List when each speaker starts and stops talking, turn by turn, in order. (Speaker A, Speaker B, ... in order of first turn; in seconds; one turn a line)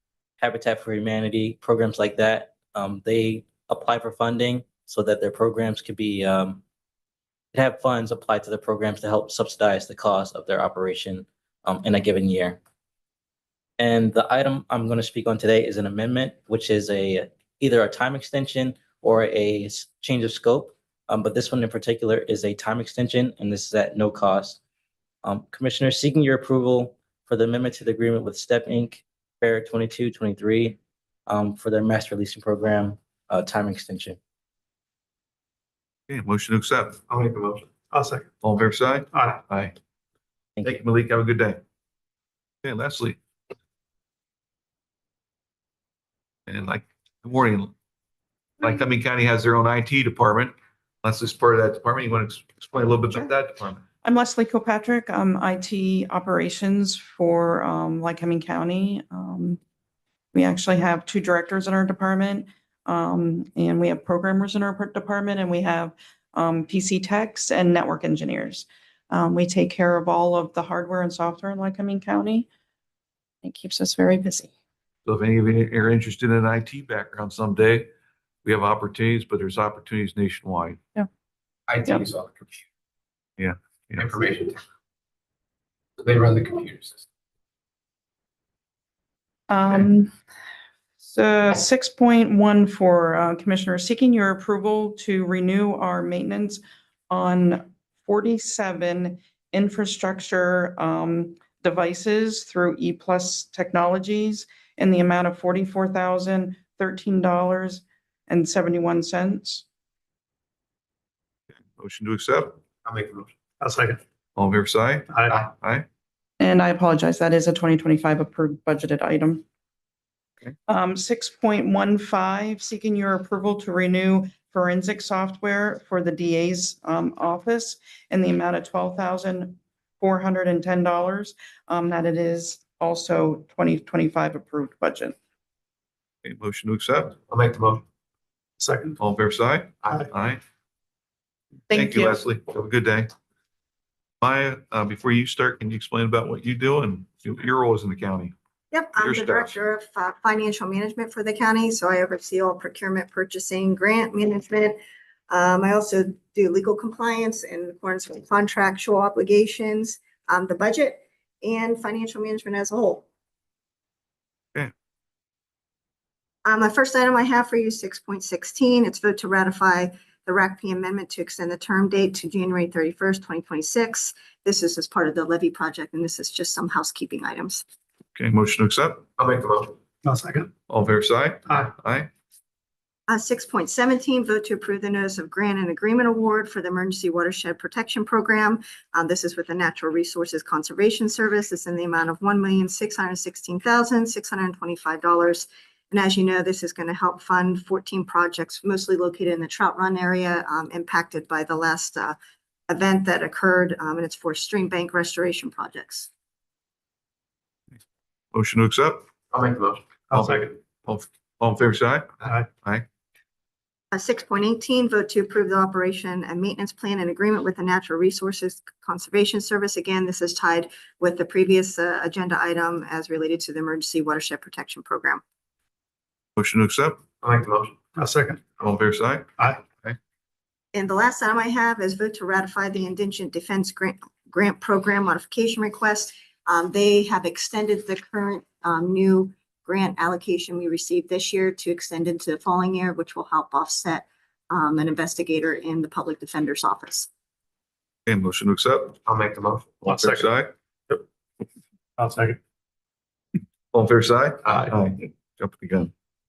Speaker A: 0.4-6.6
Speaker A: 7.5-12.6
Speaker A: 13.8-24.6
Speaker A: 25.2-34.2
Speaker B: 36.1-37.0
Speaker C: 37.1-37.8
Speaker D: 37.9-38.2
Speaker B: 38.4-39.7
Speaker D: 39.1-39.4
Speaker B: 40.6-41.6
Speaker B: 42.6-43.2
Speaker B: 46.5-47.7
Speaker B: 48.6-53.8
Speaker E: 54.0-59.6
Speaker E: 60.3-72.5
Speaker E: 73.4-74.5
Speaker B: 75.0-77.9
Speaker B: 78.4-80.8
Speaker C: 81.7-82.6
Speaker B: 83.4-84.0
Speaker C: 84.0-84.6
Speaker C: 86.0-87.0
Speaker E: 89.5-90.1
Speaker E: 91.0-109.6
Speaker B: 111.5-112.6
Speaker C: 112.8-113.3
Speaker D: 113.6-114.0
Speaker B: 114.3-115.8
Speaker D: 115.1-115.4
Speaker E: 116.4-119.4
Speaker E: 120.7-135.2
Speaker B: 136.2-137.2
Speaker C: 137.3-137.8
Speaker D: 138.6-139.0
Speaker B: 139.0-140.4
Speaker C: 139.8-140.1
Speaker E: 141.7-142.2
Speaker B: 141.7-143.1
Speaker B: 144.2-148.3
Speaker F: 148.7-154.8
Speaker B: 149.0-149.5
Speaker F: 155.3-163.1
Speaker F: 166.4-177.6
Speaker B: 178.2-179.1
Speaker C: 179.2-179.8
Speaker D: 180.0-180.5
Speaker B: 180.7-182.1
Speaker F: 183.1-202.2
Speaker F: 202.7-206.1
Speaker B: 208.3-209.1
Speaker C: 209.3-209.9
Speaker D: 210.1-210.6
Speaker B: 210.1-212.8
Speaker F: 213.9-225.2
Speaker B: 226.4-227.0
Speaker C: 227.2-227.8
Speaker D: 227.9-228.6
Speaker B: 228.6-230.0
Speaker D: 229.4-229.6
Speaker F: 230.7-247.1
Speaker B: 248.1-249.0
Speaker C: 249.1-249.8
Speaker D: 249.8-250.3
Speaker B: 249.8-250.5
Speaker D: 252.0-252.4
Speaker B: 253.7-255.9